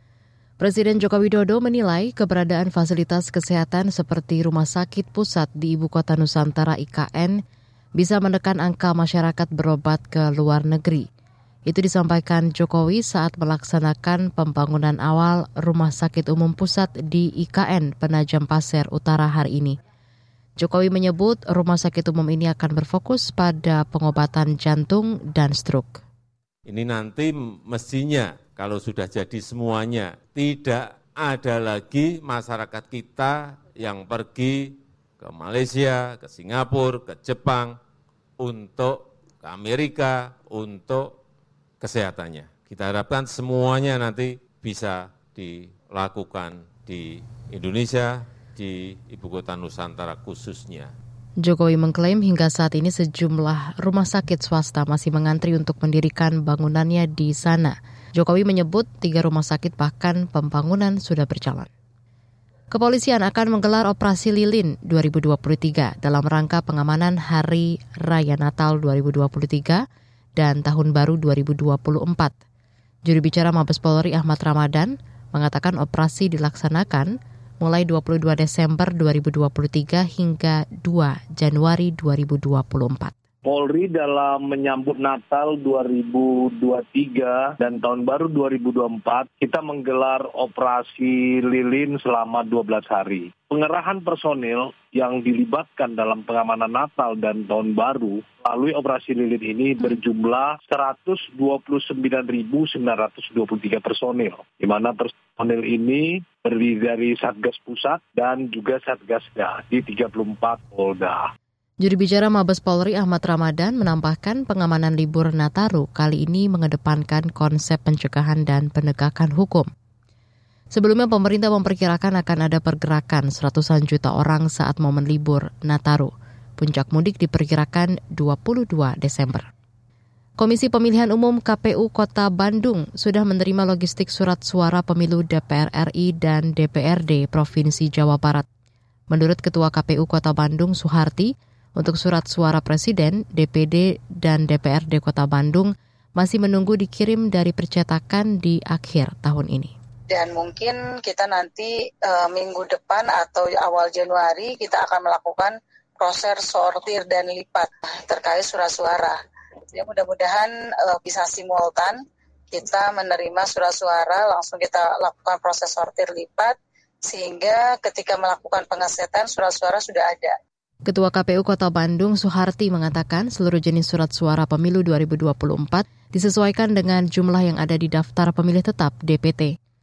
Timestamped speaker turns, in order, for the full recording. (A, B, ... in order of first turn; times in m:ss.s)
0:00.6-0:07.4 A
0:08.0-0:11.1 A
0:11.7-0:19.8 A
0:20.6-0:26.0 A
0:26.7-0:37.8 B
0:38.4-0:41.2 B
0:41.8-0:50.9 B
0:51.4-1:01.7 A
1:02.7-1:09.8 A
1:10.4-1:12.3 A
1:13.1-1:23.1 A
1:23.4-1:51.3 C
1:51.8-1:59.7 A
2:00.7-2:09.5 A
2:10.4-2:18.5 A
2:19.1-2:29.7 A
2:30.1-2:39.2 D
2:39.7-2:42.0 D
2:42.5-2:46.6 D
2:47.1-2:50.4 D
2:50.9-2:59.5 A